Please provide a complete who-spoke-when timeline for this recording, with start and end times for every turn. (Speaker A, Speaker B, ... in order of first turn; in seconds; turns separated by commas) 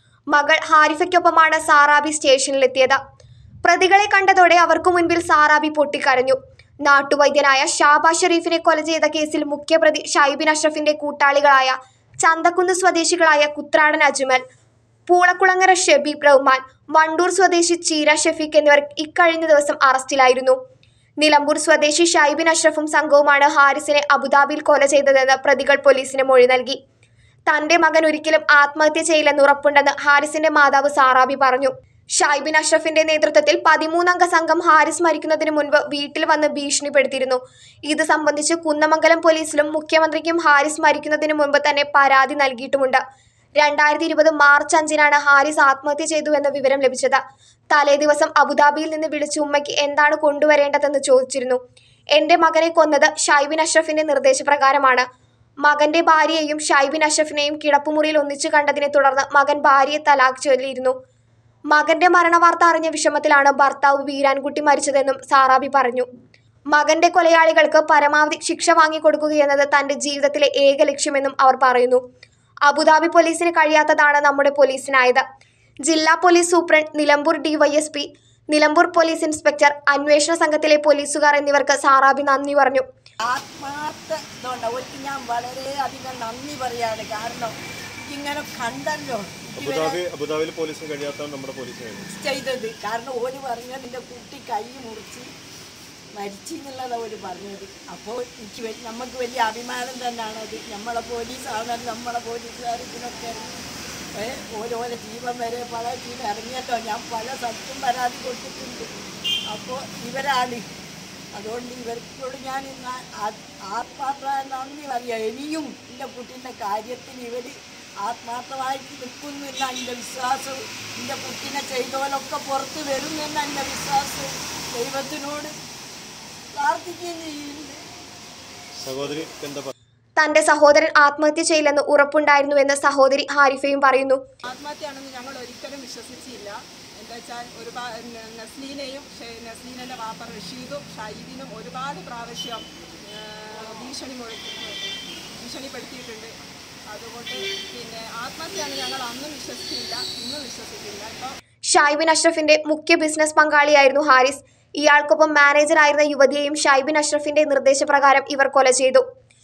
Speaker A: 0.3-3.0, Speaker A: 3.6-14.4, Speaker A: 15.1-20.6, Speaker A: 21.2-26.8, Speaker A: 27.5-43.0, Speaker A: 43.6-47.2, Speaker A: 47.7-51.6, Speaker A: 52.1-55.0, Speaker A: 55.6-60.9, Speaker A: 61.7-66.1, Speaker A: 66.7-72.0, Speaker A: 72.7-75.2, Speaker A: 75.8-82.8, Speaker B: 83.2-90.0, Speaker C: 89.6-92.1, Speaker B: 92.0-95.3, Speaker B: 96.1-103.5, Speaker B: 104.1-108.9, Speaker B: 109.5-110.7, Speaker B: 111.3-125.5, Speaker B: 126.5-127.8, Speaker C: 128.8-129.7, Speaker A: 130.2-134.2, Speaker D: 134.4-146.3, Speaker D: 146.9-151.3, Speaker A: 151.7-159.0